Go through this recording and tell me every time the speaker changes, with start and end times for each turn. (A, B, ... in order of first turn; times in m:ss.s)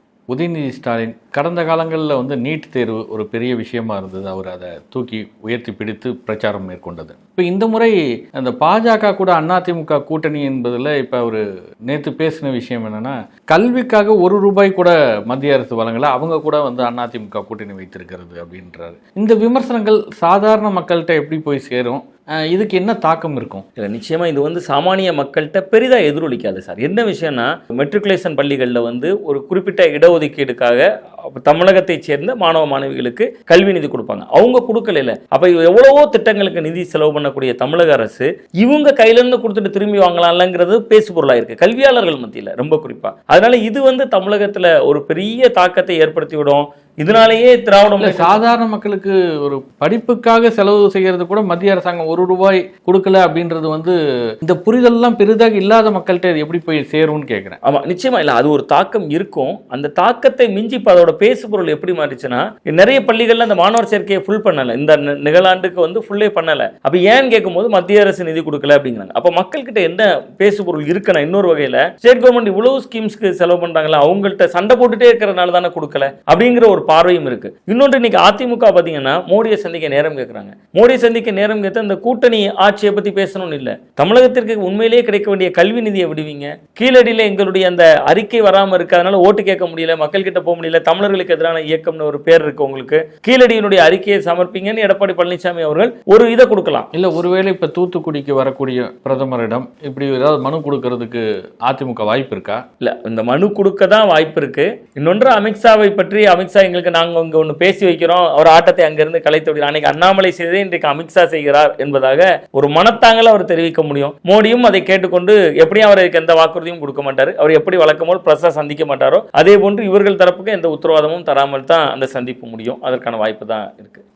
0:00.3-0:23.6 A
0:23.8-0:48.4 B
0:48.0-0:57.6 A
0:57.6-1:36.9 B
1:36.9-1:42.6 A
1:42.8-2:04.0 B